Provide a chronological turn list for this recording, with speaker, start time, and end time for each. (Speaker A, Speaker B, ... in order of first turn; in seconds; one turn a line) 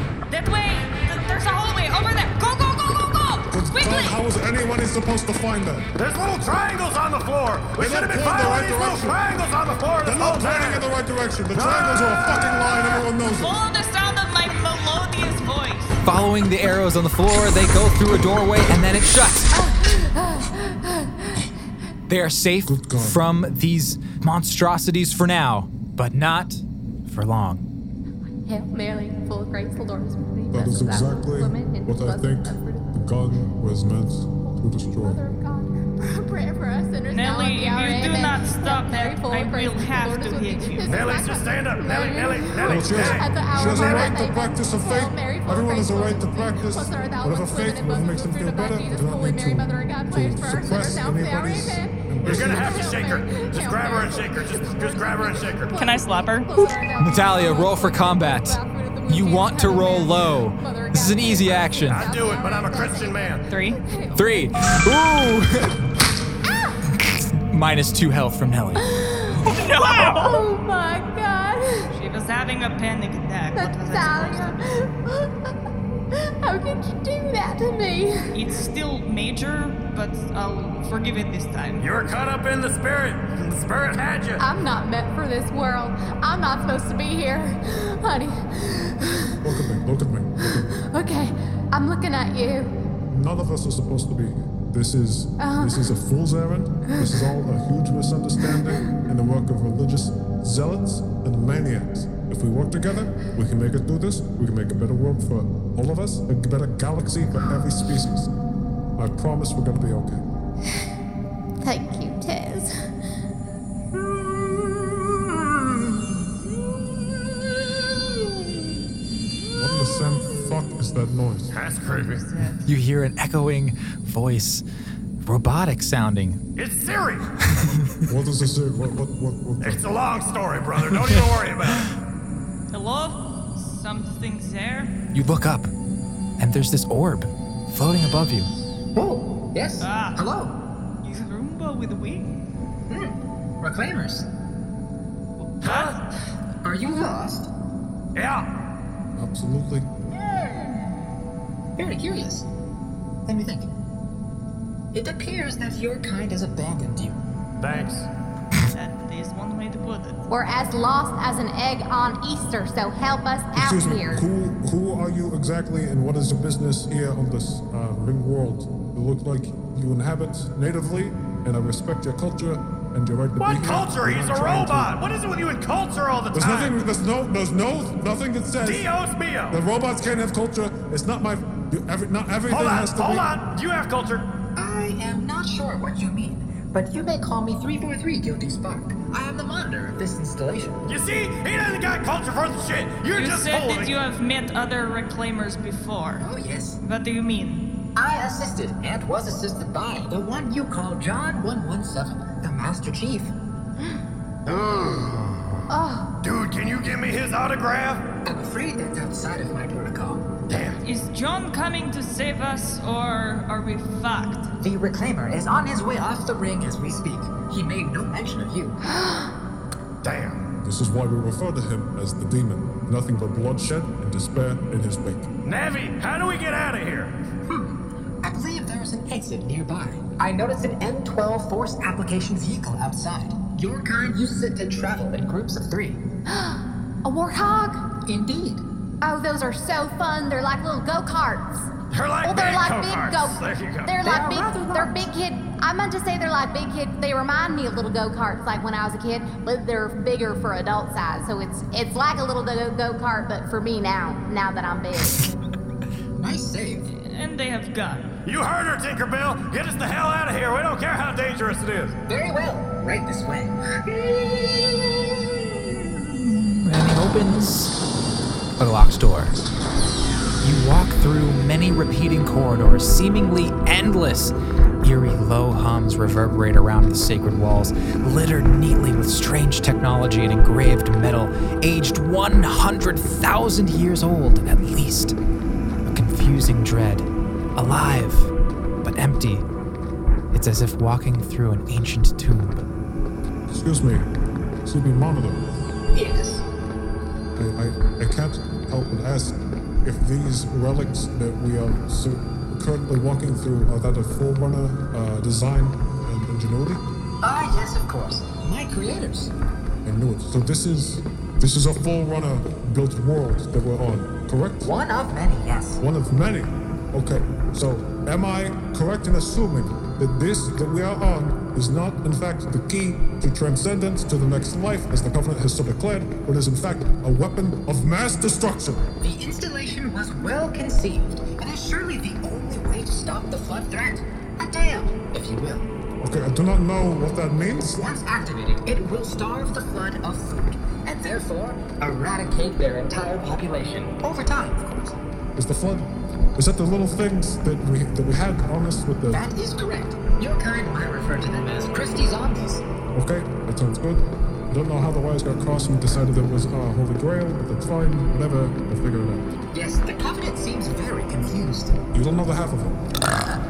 Speaker A: 0.3-4.2
Speaker B: 3.5-5.9
Speaker C: 6.0-10.8
Speaker B: 7.8-9.2
Speaker B: 10.0-13.6
Speaker C: 11.5-12.2
Speaker A: 13.2-16.0
Speaker D: 16.0-19.5
Speaker E: 19.5-21.5
Speaker D: 22.1-27.6
Speaker B: 22.7-23.2
Speaker E: 28.5-33.0
Speaker B: 30.5-35.2
Speaker E: 34.5-64.5
Speaker A: 37.1-41.2
Speaker C: 40.9-44.0
Speaker B: 42.6-52.9
Speaker C: 52.2-55.8
Speaker A: 55.8-56.5
Speaker D: 56.6-62.1
Speaker C: 61.9-63.4
Speaker A: 63.5-63.8
Speaker D: 64.1-65.8
Speaker E: 66.5-66.8
Speaker D: 67.0-68.8
Speaker E: 68.8-71.9
Speaker A: 69.5-70.3
Speaker A: 71.9-74.6
Speaker E: 73.5-75.5
Speaker E: 76.1-78.3
Speaker A: 78.3-81.9
Speaker C: 81.8-84.4
Speaker E: 84.4-89.5
Speaker B: 89.4-90.7
Speaker E: 90.4-92.8
Speaker B: 93.1-108.3
Speaker E: 95.4-95.8
Speaker B: 109.0-110.2
Speaker E: 111.6-112.9
Speaker B: 119.6-121.5
Speaker C: 121.5-122.2
Speaker A: 121.9-122.7
Speaker D: 122.7-124.6
Speaker D: 125.2-126.4
Speaker C: 126.6-127.3
Speaker D: 127.5-128.1
Speaker B: 128.1-129.8
Speaker C: 129.6-131.9
Speaker A: 132.7-134.9
Speaker D: 135.1-135.7
Speaker D: 136.4-138.5
Speaker F: 138.9-140.5
Speaker A: 139.8-140.2
Speaker A: 141.0-142.3
Speaker F: 142.9-144.3
Speaker A: 145.4-146.1
Speaker C: 145.6-146.0
Speaker F: 146.6-147.5
Speaker C: 148.2-148.5
Speaker B: 149.2-149.9
Speaker F: 150.1-151.0
Speaker F: 151.8-152.5
Speaker F: 153.3-153.7
Speaker F: 154.9-157.2
Speaker C: 157.6-158.1
Speaker A: 158.7-160.2
Speaker E: 160.3-164.2
Speaker B: 163.6-174.9
Speaker C: 173.4-176.8
Speaker B: 176.3-178.9
Speaker C: 178.6-179.6
Speaker B: 179.5-183.3
Speaker C: 182.5-184.3
Speaker F: 184.6-190.8
Speaker C: 190.9-193.9
Speaker A: 193.2-196.3
Speaker F: 196.2-196.8
Speaker A: 196.8-197.7
Speaker F: 197.9-203.3
Speaker C: 204.5-205.6
Speaker E: 205.7-206.1
Speaker C: 206.2-208.0
Speaker F: 208.2-210.7
Speaker C: 210.5-210.8
Speaker A: 210.8-214.5
Speaker F: 214.6-218.8
Speaker E: 219.0-219.3
Speaker C: 220.0-220.4
Speaker B: 220.6-225.3
Speaker C: 225.4-227.2
Speaker F: 227.5-236.0
Speaker E: 236.3-237.9
Speaker F: 238.1-238.6
Speaker E: 239.0-241.7
Speaker C: 241.9-244.0
Speaker E: 242.2-255.2
Speaker F: 244.0-245.1
Speaker F: 256.1-256.9
Speaker A: 256.9-258.1
Speaker C: 258.2-261.9
Speaker F: 262.1-266.1
Speaker D: 266.3-267.7
Speaker D: 268.6-269.4
Speaker D: 270.4-285.1
Speaker D: 285.9-288.3
Speaker D: 288.8-289.4
Speaker D: 290.3-292.7
Speaker B: 293.5-294.1
Speaker B: 294.6-295.4
Speaker F: 295.9-296.4
Speaker B: 297.4-306.8
Speaker F: 307.2-309.3
Speaker B: 309.9-314.7
Speaker F: 314.6-315.8
Speaker B: 315.8-328.9
Speaker F: 329.0-335.7
Speaker B: 336.0-337.8
Speaker F: 337.8-345.0
Speaker B: 345.4-349.3
Speaker F: 349.1-352.6
Speaker B: 352.9-359.3
Speaker F: 359.5-361.8
Speaker B: 361.9-362.8